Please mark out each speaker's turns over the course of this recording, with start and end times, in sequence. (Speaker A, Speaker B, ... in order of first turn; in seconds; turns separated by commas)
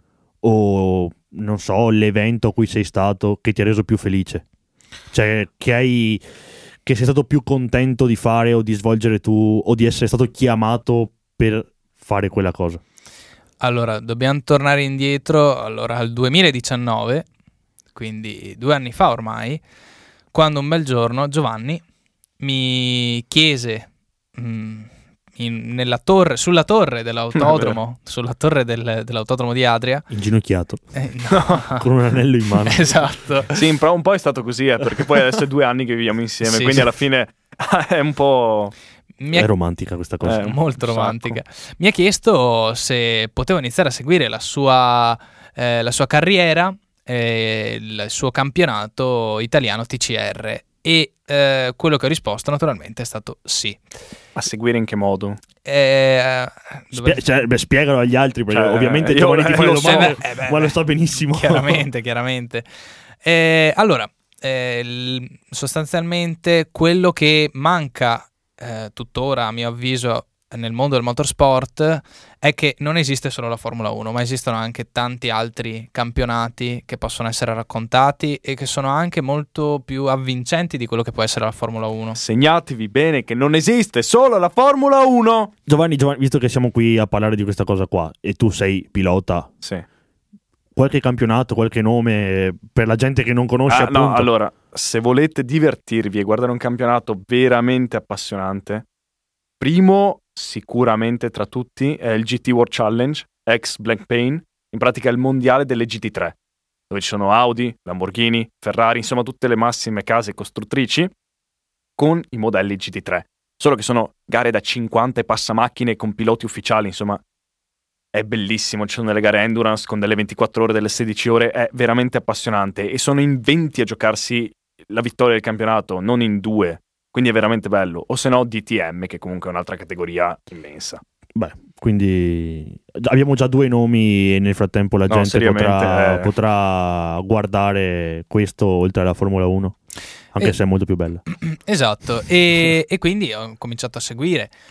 Speaker A: 0.4-4.4, Speaker A: 5.1-6.2, Speaker A: 6.8-12.8, Speaker B: 13.6-17.3, Speaker B: 17.9-19.6, Speaker B: 20.3-21.8, Speaker B: 22.4-30.1, Speaker C: 27.3-27.8, Speaker A: 30.1-30.8, Speaker B: 30.9-31.8, Speaker C: 31.3-31.6, Speaker A: 31.7-32.9, Speaker B: 32.6-33.6, Speaker C: 33.5-38.7, Speaker B: 36.4-36.9, Speaker B: 39.2-39.5, Speaker A: 39.3-40.5, Speaker C: 40.2-41.4, Speaker B: 40.4-53.8, Speaker C: 54.3-55.4, Speaker B: 55.6-57.2, Speaker A: 56.9-61.8, Speaker C: 58.5-60.2, Speaker B: 59.5-60.7, Speaker B: 61.3-62.6, Speaker B: 63.2-82.2, Speaker C: 82.2-85.5, Speaker A: 85.7-89.5, Speaker A: 90.8-94.3, Speaker C: 93.7-98.8, Speaker C: 99.6-106.3, Speaker C: 106.9-111.1, Speaker C: 112.0-117.2, Speaker C: 118.1-131.0, Speaker A: 131.3-139.8, Speaker C: 135.1-136.3, Speaker A: 140.3-141.2, Speaker B: 141.3-144.5